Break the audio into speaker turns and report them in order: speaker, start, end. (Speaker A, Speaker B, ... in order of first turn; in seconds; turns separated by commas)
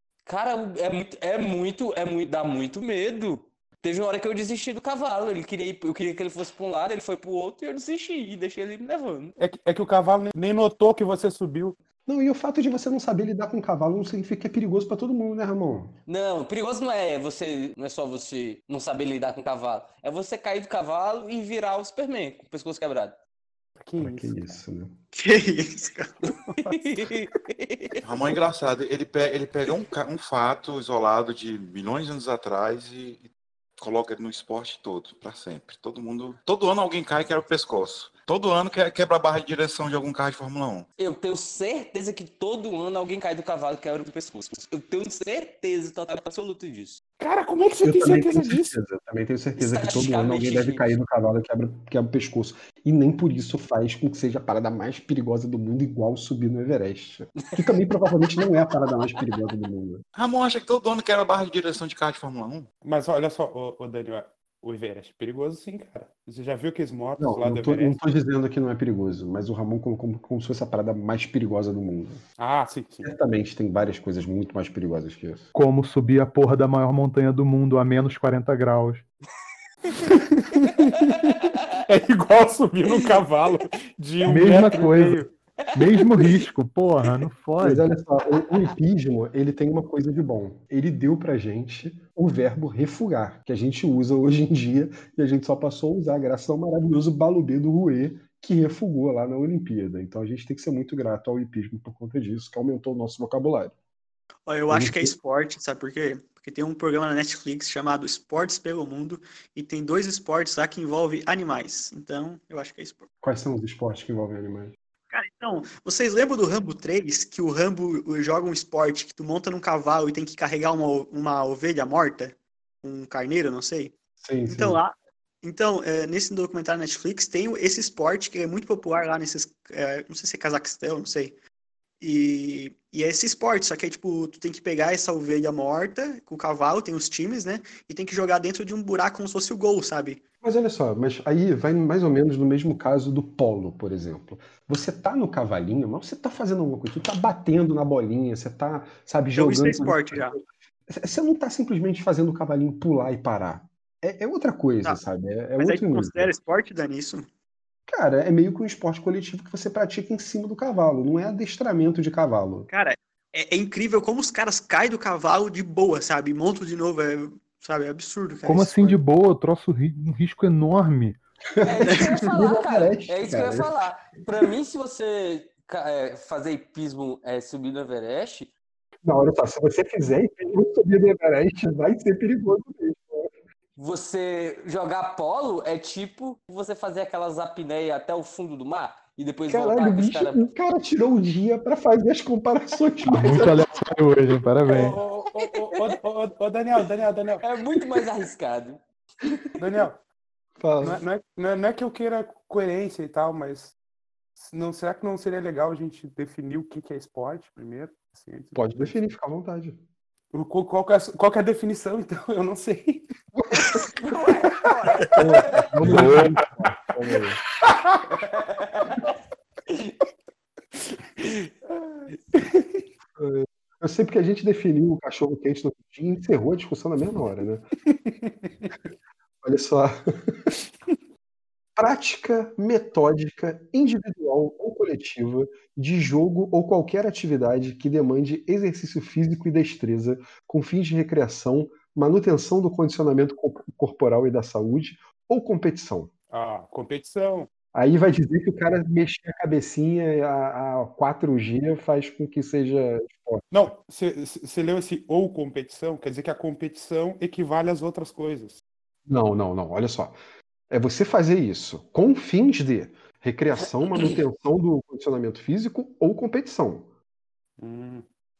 Speaker A: 0.2-9.3, Speaker B: 9.4-11.8, Speaker C: 12.1-15.9, Speaker A: 16.1-23.2, Speaker B: 23.8-24.6, Speaker C: 24.0-25.0, Speaker D: 25.1-26.3, Speaker A: 26.6-28.0, Speaker E: 28.0-33.3, Speaker E: 33.8-40.9, Speaker A: 41.0-47.0, Speaker B: 47.2-48.7, Speaker C: 47.8-60.0, Speaker A: 49.6-50.9, Speaker A: 57.4-57.8, Speaker E: 60.1-62.7, Speaker B: 62.8-68.0, Speaker C: 67.2-72.2, Speaker B: 72.4-73.1, Speaker C: 73.0-75.5, Speaker F: 75.5-79.0, Speaker B: 80.0-85.3, Speaker A: 82.8-83.2, Speaker F: 84.2-87.9, Speaker A: 85.7-86.5, Speaker C: 87.6-103.7, Speaker D: 104.5-113.1, Speaker C: 104.7-105.1, Speaker C: 113.2-114.7, Speaker D: 115.1-123.9, Speaker C: 124.2-124.8, Speaker D: 124.5-131.3, Speaker D: 132.0-140.2, Speaker C: 140.4-156.3, Speaker D: 149.3-150.4, Speaker D: 155.6-157.3, Speaker C: 157.9-162.7, Speaker D: 162.7-169.0, Speaker F: 168.4-171.2, Speaker C: 171.6-173.8, Speaker A: 171.6-178.5, Speaker D: 171.8-172.2, Speaker C: 179.0-183.3, Speaker A: 183.8-190.5, Speaker C: 189.5-193.6, Speaker F: 193.1-195.0, Speaker B: 194.6-197.4, Speaker A: 194.7-196.0, Speaker A: 197.4-199.8, Speaker B: 199.6-200.0, Speaker C: 200.6-201.0, Speaker B: 200.8-203.8, Speaker B: 204.4-208.9, Speaker C: 208.5-209.8, Speaker B: 210.3-213.1, Speaker A: 213.9-215.7, Speaker C: 215.2-217.4, Speaker A: 218.2-219.1, Speaker A: 219.7-220.0, Speaker A: 221.2-221.5, Speaker B: 222.3-222.6, Speaker C: 223.2-227.7, Speaker B: 227.9-228.7, Speaker C: 229.4-230.5, Speaker C: 231.8-246.1, Speaker B: 246.3-247.5, Speaker C: 247.7-253.4, Speaker B: 253.5-258.6, Speaker C: 259.1-260.2, Speaker C: 260.7-266.9, Speaker A: 263.9-264.2, Speaker B: 267.6-268.1